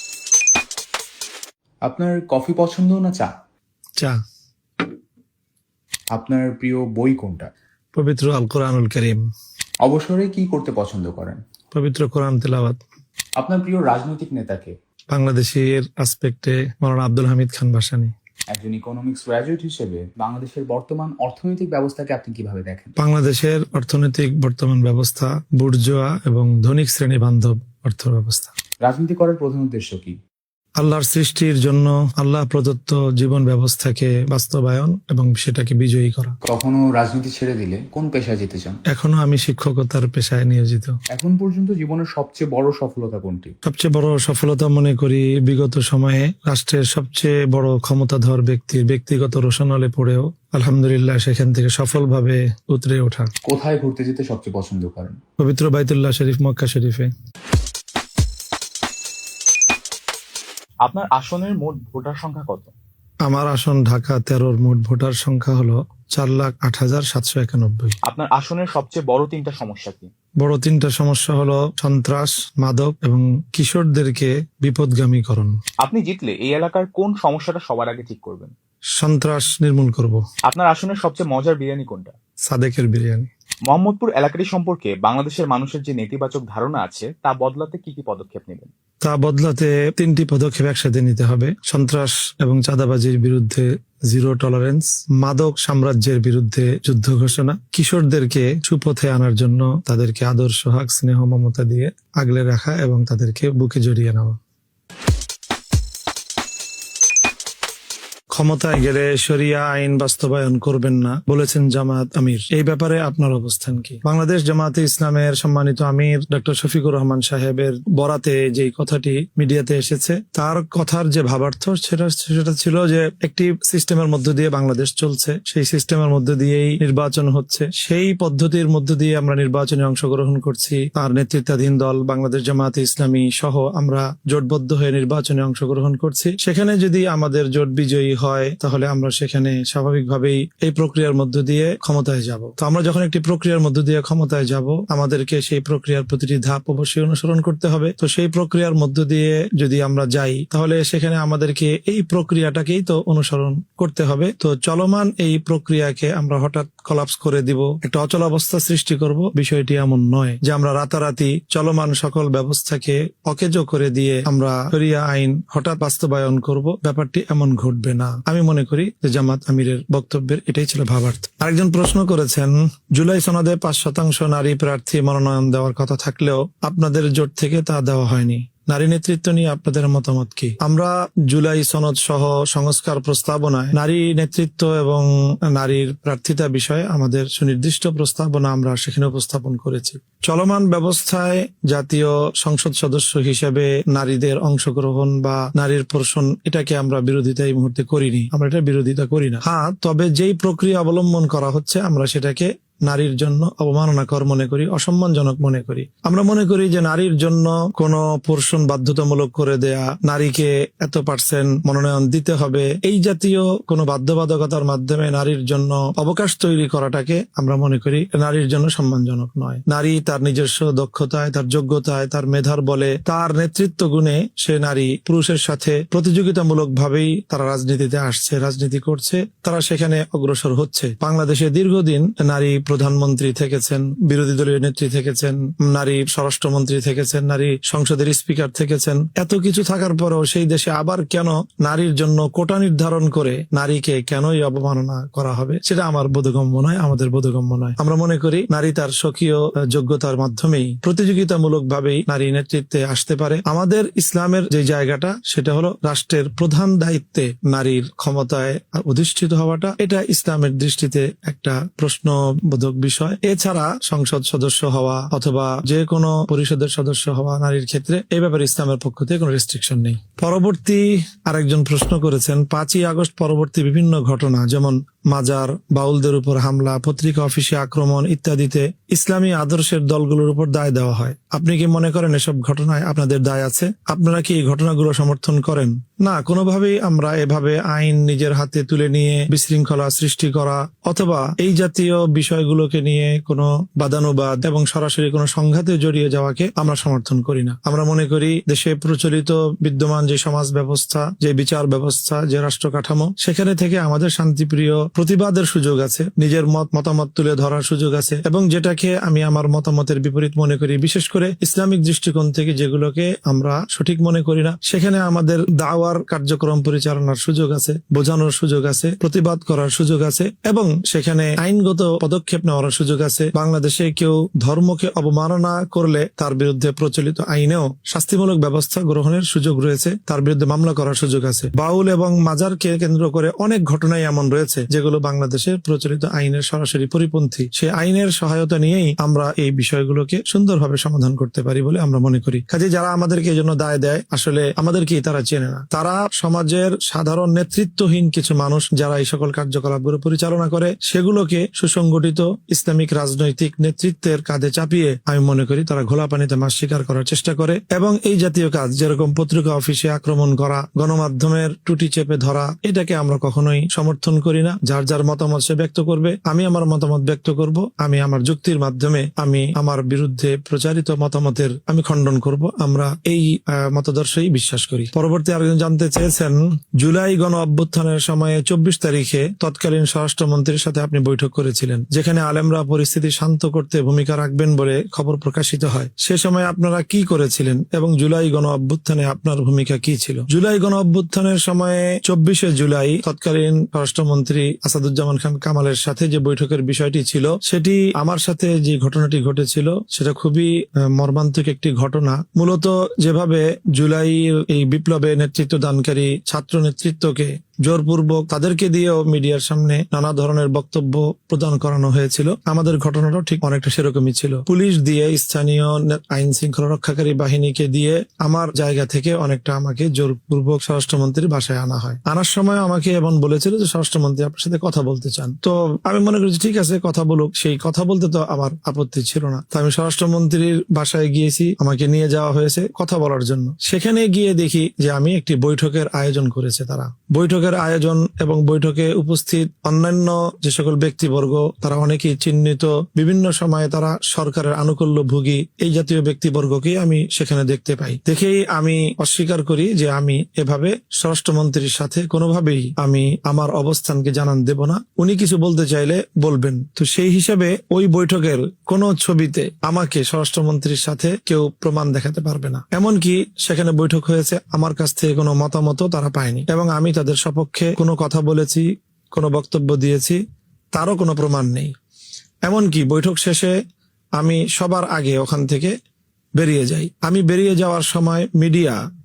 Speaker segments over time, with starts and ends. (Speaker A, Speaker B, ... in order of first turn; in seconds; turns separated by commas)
Speaker A: 1.9-3.3, Speaker A: 6.1-7.5, Speaker B: 7.9-9.2, Speaker A: 9.8-11.4, Speaker B: 11.7-12.8, Speaker A: 13.4-14.7, Speaker B: 15.1-18.1, Speaker A: 18.5-22.9, Speaker B: 23.0-28.5, Speaker A: 28.8-30.2, Speaker B: 30.8-36.4, Speaker A: 36.4-38.8, Speaker B: 38.9-40.9, Speaker A: 41.1-43.5, Speaker B: 43.6-53.3, Speaker A: 53.4-55.2, Speaker B: 55.4-57.1, Speaker C: 60.8-62.7, Speaker B: 63.2-68.0, Speaker C: 68.0-70.1, Speaker B: 70.4-75.5, Speaker C: 75.8-78.5, Speaker B: 79.0-80.2, Speaker C: 80.5-82.1, Speaker B: 82.5-83.3, Speaker C: 83.7-88.7, Speaker B: 89.0-104.4, Speaker B: 108.3-470.2, Speaker B: 470.7-471.7, Speaker B: 472.4-473.6, Speaker B: 474.2-475.8, Speaker B: 476.4-478.8